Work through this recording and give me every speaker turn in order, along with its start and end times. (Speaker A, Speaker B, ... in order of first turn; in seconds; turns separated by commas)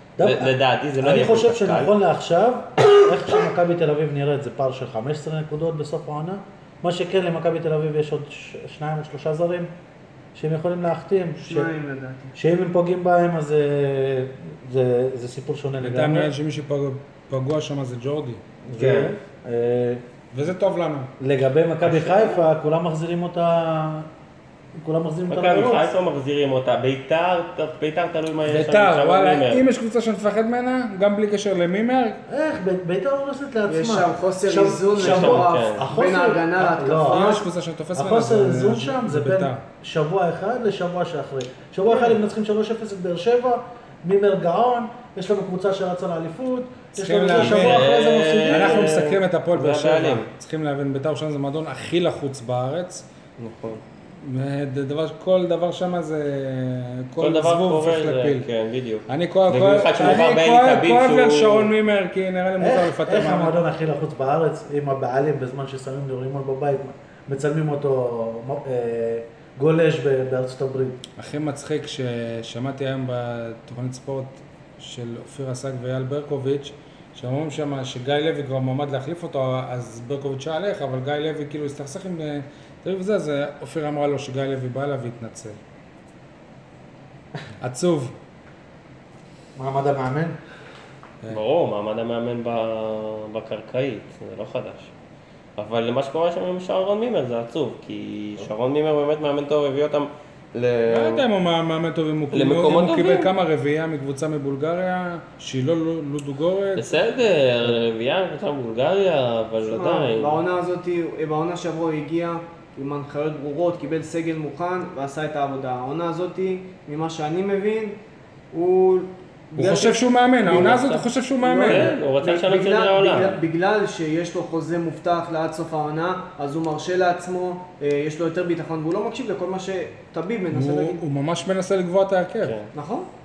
Speaker A: 0.2-9.7, Speaker B: 0.2-1.9, Speaker A: 10.3-11.7, Speaker C: 11.4-12.3, Speaker A: 12.3-16.3, Speaker D: 15.8-18.4, Speaker A: 18.6-20.0, Speaker B: 18.8-19.2, Speaker D: 20.3-21.1, Speaker A: 21.2-24.1, Speaker B: 21.8-22.4, Speaker A: 24.8-25.9, Speaker B: 25.3-29.6, Speaker D: 28.5-32.2, Speaker A: 32.3-37.4, Speaker C: 33.7-37.5, Speaker B: 34.9-35.9, Speaker D: 37.1-39.6, Speaker A: 37.9-49.0, Speaker C: 41.9-42.2, Speaker D: 47.0-47.9, Speaker B: 47.3-50.3, Speaker D: 48.5-53.1, Speaker B: 53.4-53.8, Speaker D: 54.2-58.5, Speaker B: 57.2-61.7, Speaker D: 59.1-63.5, Speaker A: 62.6-71.0, Speaker D: 71.2-85.6, Speaker D: 87.6-88.2, Speaker A: 89.6-90.4, Speaker B: 91.3-94.9, Speaker B: 95.6-101.2, Speaker D: 100.9-107.0, Speaker B: 102.3-103.3, Speaker B: 106.8-110.4, Speaker C: 109.7-118.0, Speaker C: 118.5-131.0, Speaker D: 119.6-121.9, Speaker B: 120.5-121.0, Speaker B: 121.6-123.4, Speaker D: 130.5-132.6, Speaker B: 132.4-132.7, Speaker C: 132.7-133.1